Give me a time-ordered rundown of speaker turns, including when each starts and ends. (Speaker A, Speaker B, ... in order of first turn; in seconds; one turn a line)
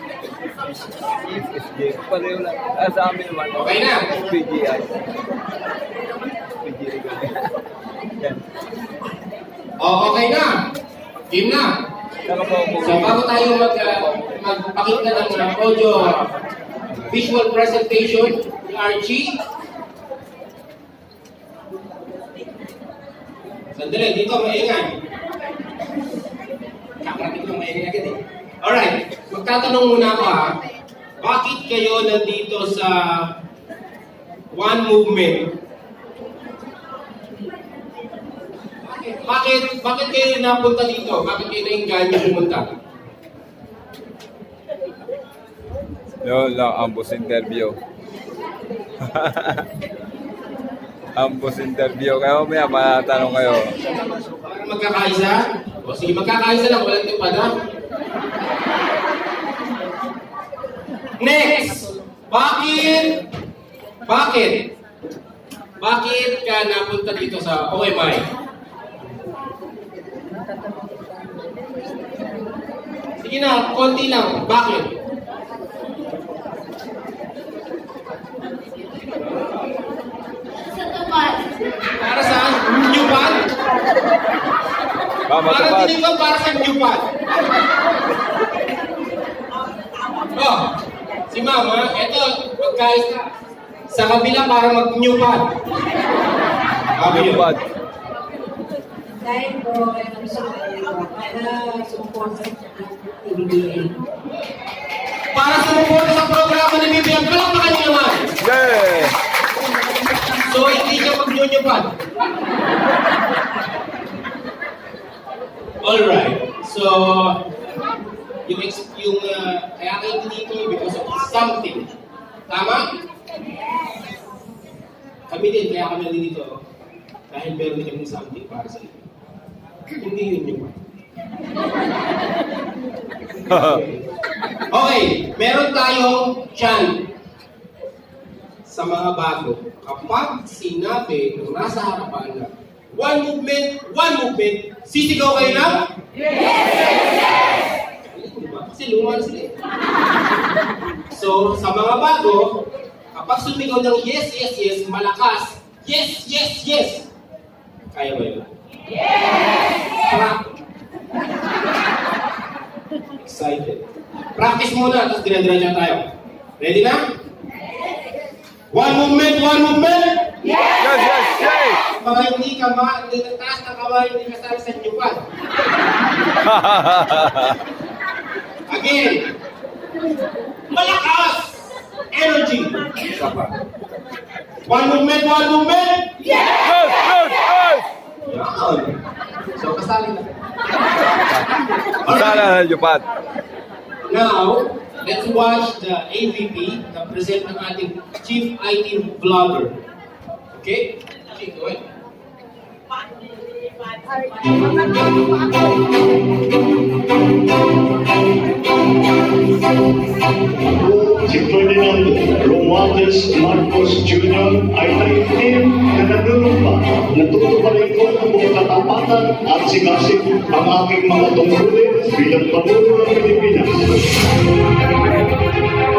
Speaker A: 1.1-5.1
Speaker B: 3.6-4.2
Speaker A: 6.6-7.6
Speaker B: 9.8-10.7
Speaker B: 11.3-11.9
Speaker A: 12.3-13.1
Speaker B: 12.8-19.4
Speaker B: 23.7-25.0
Speaker B: 27.0-30.6
Speaker B: 31.2-33.4
Speaker B: 34.5-35.6
Speaker B: 38.9-42.7
Speaker A: 46.2-47.8
Speaker A: 49.0-49.7
Speaker A: 51.1-53.8
Speaker B: 54.3-57.6
Speaker B: 61.2-63.3
Speaker B: 64.1-64.7
Speaker B: 65.8-68.3
Speaker B: 73.2-75.0
Speaker B: 81.9-83.5
Speaker A: 85.3-85.9
Speaker B: 85.4-87.1
Speaker B: 90.3-93.3
Speaker B: 93.9-95.6
Speaker B: 96.9-97.5
Speaker A: 97.1-97.6
Speaker C: 99.2-104.0
Speaker B: 105.3-108.5
Speaker A: 108.5-109.2
Speaker B: 110.3-112.0
Speaker B: 115.8-117.4
Speaker B: 118.5-121.9
Speaker B: 122.5-123.0
Speaker B: 125.3-126.6
Speaker B: 127.3-129.0
Speaker B: 129.9-130.8
Speaker B: 133.5-133.8
Speaker B: 134.7-137.1
Speaker B: 138.6-145.9
Speaker B: 147.8-149.6
Speaker B: 151.1-157.1
Speaker B: 157.9-158.5
Speaker B: 159.8-160.6
Speaker B: 163.2-167.1
Speaker B: 168.7-170.7
Speaker A: 170.8-171.8
Speaker B: 171.5-175.3
Speaker A: 176.5-177.6
Speaker B: 178.7-179.3
Speaker B: 180.7-183.6
Speaker B: 184.7-186.5
Speaker A: 186.9-187.8
Speaker B: 188.2-189.0
Speaker B: 189.5-190.4
Speaker B: 192.0-192.4
Speaker A: 192.1-193.1
Speaker B: 194.0-199.8
Speaker B: 200.5-201.9
Speaker D: 210.6-224.1